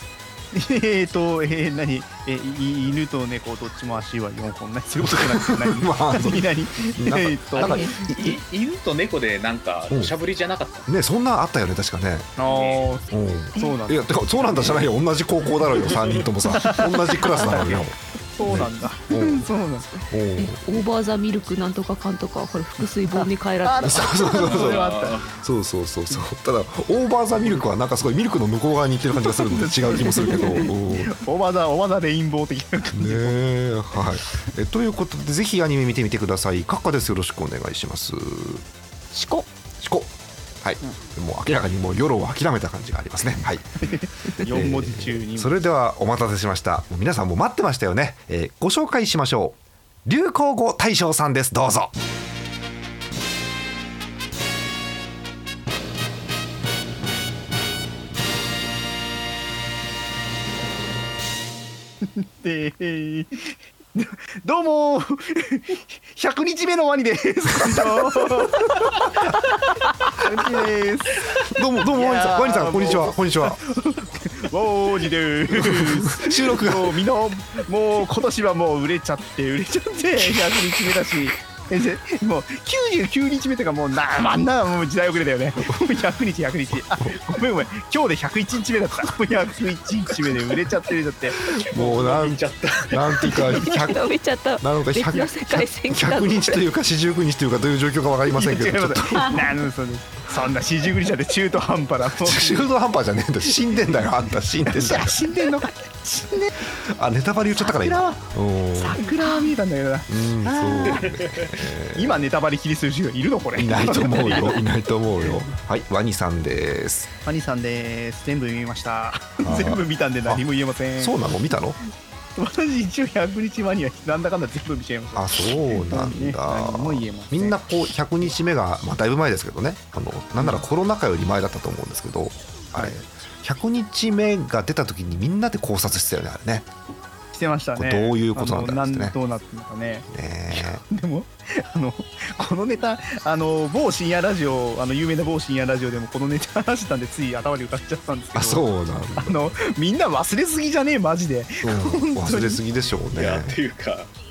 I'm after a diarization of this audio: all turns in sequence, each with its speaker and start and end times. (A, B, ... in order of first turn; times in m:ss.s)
0:00.5-0:07.9 A
0:05.0-0:08.4 B
0:07.6-0:08.0 C
0:08.0-0:10.9 D
0:09.9-0:10.2 B
0:10.9-0:12.4 B
0:12.4-0:14.8 A
0:12.4-0:13.0 D
0:13.1-0:19.5 B
0:13.6-0:13.8 C
0:16.5-0:17.7 A
0:17.5-0:17.8 D
0:18.3-0:20.0 A
0:20.1-0:20.6 B
0:20.4-0:24.4 C
0:23.1-0:25.2 A
0:23.9-0:31.2 B
0:24.4-0:25.4 D
0:29.2-0:33.5 A
0:32.9-0:38.7 B
0:39.1-0:39.5 C
0:39.8-0:51.9 B
0:43.8-0:45.5 A
1:02.0-1:11.3 A
1:07.7-1:08.0 B
1:11.4-1:13.6 B
1:11.9-1:31.4 A
1:15.5-1:17.0 B
1:27.0-1:27.3 B
1:31.6-1:33.4 D
1:31.6-1:39.5 B
1:33.4-1:36.6 C
1:38.3-1:42.6 A
1:42.1-1:45.3 B
1:44.7-1:46.5 A
1:46.8-1:49.0 B
1:47.6-1:51.1 A
1:50.1-1:52.3 B
1:51.1-1:51.5 D
1:52.0-1:54.6 A
1:53.6-1:57.1 B
1:57.2-2:01.2 A
1:59.4-2:00.4 B
2:01.0-2:01.8 B
2:02.4-2:07.6 A
2:05.2-2:16.7 B
2:17.3-2:32.6 A
2:17.8-2:19.2 B
2:20.1-2:20.8 B
2:28.3-2:29.6 B
2:31.6-2:33.6 B
2:33.1-2:34.1 D